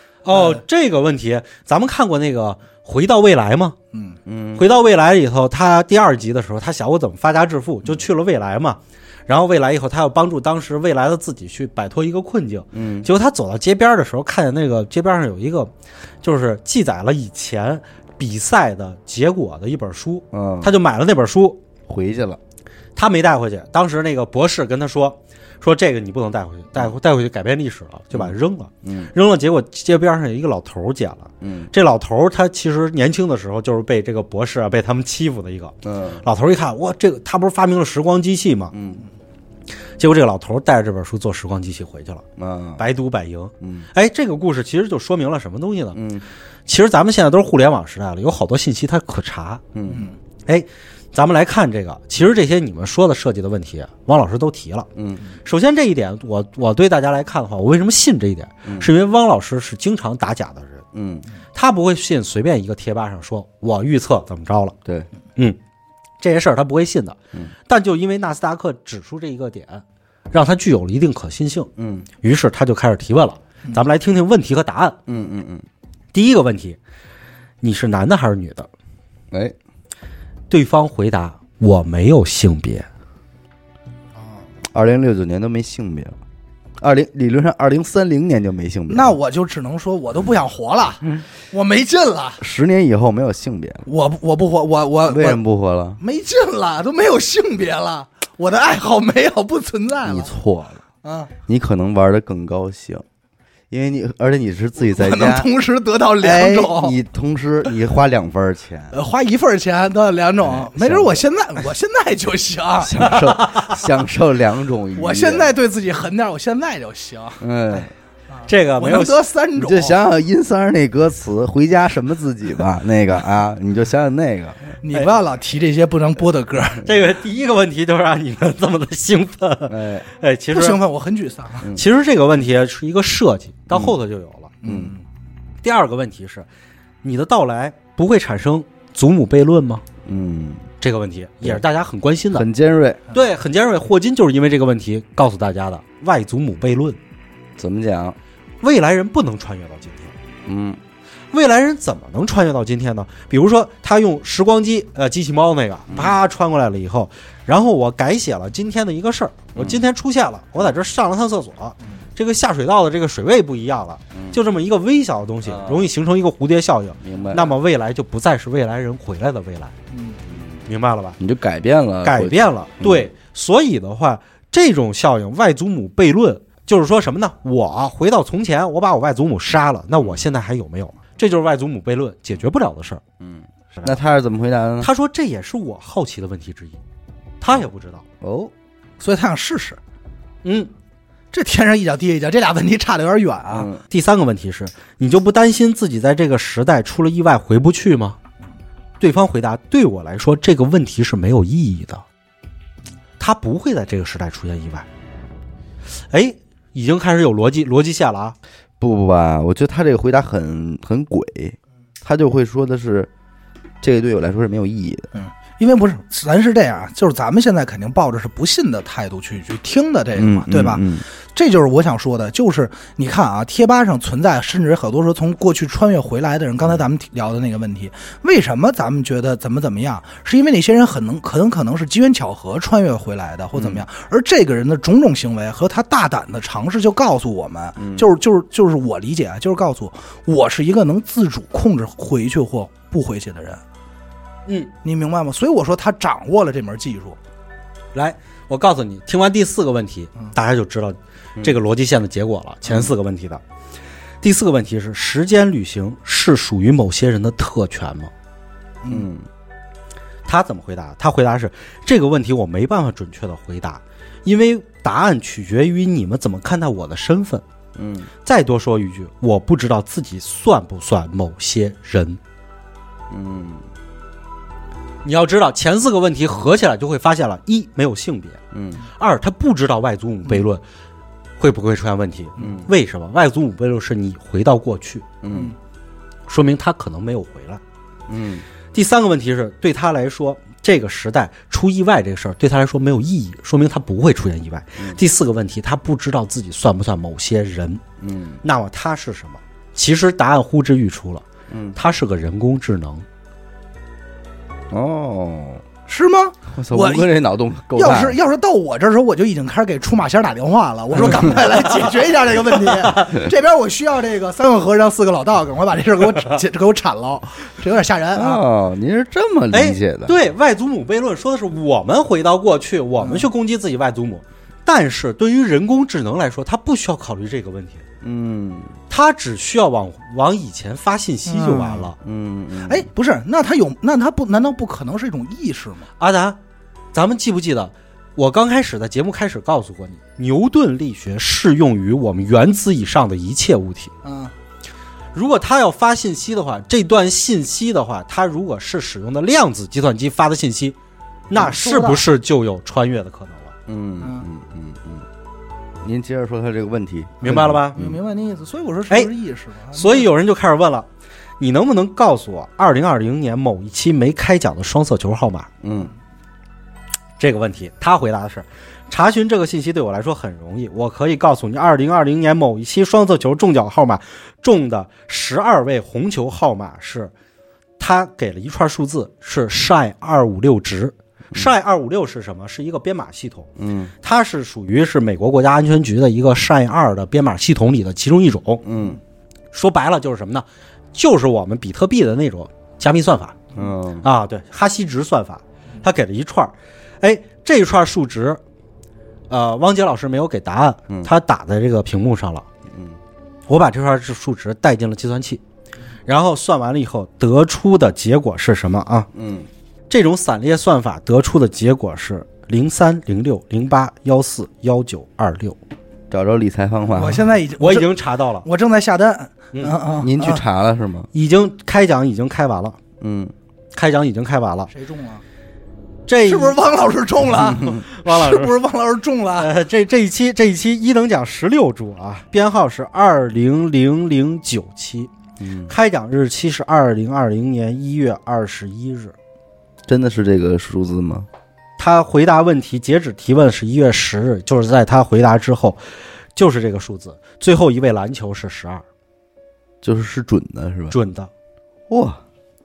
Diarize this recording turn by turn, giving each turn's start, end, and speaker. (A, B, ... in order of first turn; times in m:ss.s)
0:00.2-0:03.8 A
0:00.3-0:00.6 B
0:03.9-0:04.2 B
0:04.3-0:04.7 C
0:04.6-0:15.7 A
0:12.7-0:13.1 C
0:16.2-0:21.6 A
0:20.3-0:20.7 C
0:21.9-0:22.4 C
0:23.0-0:38.7 A
0:28.1-0:29.1 C
0:31.4-0:31.7 C
0:35.8-0:36.2 C
0:38.7-0:39.0 C
0:40.0-0:42.2 A
0:42.4-0:42.8 C
0:42.8-0:46.0 A
0:43.6-0:43.9 C
0:46.0-0:46.2 C
0:46.7-0:49.6 A
0:49.7-0:50.1 C
0:50.5-0:54.9 A
0:55.0-0:55.2 C
0:55.4-1:00.8 A
0:58.6-0:58.9 C
1:00.9-1:01.3 C
1:01.6-1:04.8 A
1:06.2-1:11.7 A
1:11.8-1:12.1 C
1:12.2-1:15.0 A
1:15.1-1:15.7 C
1:16.1-1:16.8 A
1:17.6-1:18.7 A
1:20.5-1:22.9 A
1:24.7-1:26.2 C
1:26.8-1:29.1 C
1:28.9-1:32.4 B
1:32.4-1:33.9 C
1:33.9-1:35.4 B
1:35.1-1:36.0 C
1:36.0-1:40.3 B
1:40.0-1:40.8 C
1:41.0-1:41.3 B
1:41.5-1:43.0 C
1:43.7-1:45.5 C
1:44.8-1:47.0 B
1:46.2-1:49.0 C
1:48.9-1:53.6 B
1:50.4-1:51.2 C
1:52.8-1:55.6 C
1:55.0-2:00.0 B
1:57.4-1:57.9 C
1:58.5-1:59.2 A
1:59.6-2:04.6 C
2:04.8-2:06.8 B
2:06.8-2:10.8 A
2:09.7-2:10.1 C
2:10.5-2:11.7 B
2:11.7-2:14.5 A
2:13.7-2:14.0 C
2:14.6-2:15.0 B
2:14.6-2:14.9 C
2:15.6-2:16.5 A
2:17.0-2:19.8 A
2:20.0-2:20.7 C
2:20.8-2:22.5 A
2:22.3-2:23.0 C
2:23.1-2:27.0 A
2:27.6-2:28.2 C
2:28.6-2:30.1 A
2:30.4-2:30.8 C
2:31.3-2:49.8 A
2:35.9-2:36.2 C
2:39.6-2:39.8 C
2:45.5-2:45.9 C
2:47.0-2:47.5 C
2:49.9-2:50.2 B
2:50.3-2:50.6 C
2:50.7-2:51.2 A
2:51.2-2:53.1 C
2:52.0-3:03.0 A
3:03.2-3:04.9 C
3:03.7-3:04.0 A
3:04.8-3:06.8 A
3:07.4-3:08.0 A
3:08.2-3:08.5 C
3:09.0-3:09.8 B
3:10.4-3:10.7 A
3:11.3-3:13.7 B
3:13.5-3:13.8 C
3:13.9-3:18.2 A
3:19.0-3:22.0 A
3:23.2-3:24.9 A
3:26.1-3:28.4 A
3:28.8-3:33.1 C
3:33.8-3:35.1 C
3:35.2-4:03.6 B
3:40.2-3:41.0 C
3:53.6-3:53.8 C
3:57.8-3:58.1 C
4:04.5-4:04.7 A
4:04.8-4:07.2 B
4:07.9-4:13.4 A
4:14.2-4:18.1 A
4:18.8-4:19.1 B
4:18.9-4:19.3 C
4:20.3-4:27.4 A
4:27.8-4:28.1 C
4:28.2-4:32.2 A
4:33.1-4:33.7 C
4:35.0-4:38.4 A
4:38.5-4:38.8 C
4:39.0-4:40.6 A
4:41.4-4:45.1 A
4:42.4-4:42.7 C
4:45.2-4:45.5 C
4:46.3-4:47.6 A
4:48.1-4:48.4 C
4:48.7-4:57.8 A
4:58.0-4:58.4 C
4:58.4-5:03.0 A
5:01.5-5:01.8 C
5:04.7-5:05.6 C
5:05.9-5:07.1 B
5:06.5-5:08.2 C
5:07.7-5:18.4 B
5:11.5-5:11.9 A
5:18.1-5:20.2 C
5:19.5-5:27.8 A
5:23.0-5:23.3 B
5:28.0-5:28.7 C
5:28.9-5:32.0 A
5:31.3-5:31.9 B
5:32.0-5:32.9 C
5:32.6-5:35.9 B
5:36.0-5:36.4 A
5:36.9-5:43.9 A
5:44.0-5:44.3 B
5:45.1-5:50.8 A
5:51.3-5:53.5 A
5:51.4-5:52.0 B
5:53.7-5:55.1 C
5:54.0-5:54.3 B
5:55.8-5:58.0 C
5:57.2-5:57.8 A
5:57.8-6:00.1 B
5:59.7-6:00.9 A
6:01.4-6:05.5 A
6:05.6-6:05.9 C
6:07.2-6:17.1 A
6:17.8-6:23.5 A
6:23.6-6:23.9 C
6:24.0-6:28.6 A
6:28.6-6:29.0 C
6:29.5-6:33.4 A
6:33.5-6:34.1 C
6:34.0-6:38.4 A
6:39.3-6:42.5 A
6:42.7-6:43.0 C
6:43.5-6:45.4 A
6:46.1-6:49.1 A
6:49.1-6:49.5 C
6:49.9-6:55.6 A
6:56.1-6:57.3 C
6:56.9-6:57.9 B
6:57.6-6:58.5 A
6:58.4-7:00.4 B
7:00.0-7:01.1 C
7:01.1-7:02.8 A
7:03.0-7:03.3 C
7:03.7-7:04.7 A
7:04.7-7:05.2 B
7:06.1-7:06.6 A
7:06.3-7:09.5 B
7:07.6-7:08.5 A
7:09.4-7:15.1 A
7:15.4-7:15.7 C
7:15.7-7:19.1 A
7:19.9-7:21.3 C
7:21.8-7:25.8 A
7:26.4-7:28.8 A
7:29.8-7:31.0 C
7:30.9-7:31.3 A
7:31.9-7:32.2 C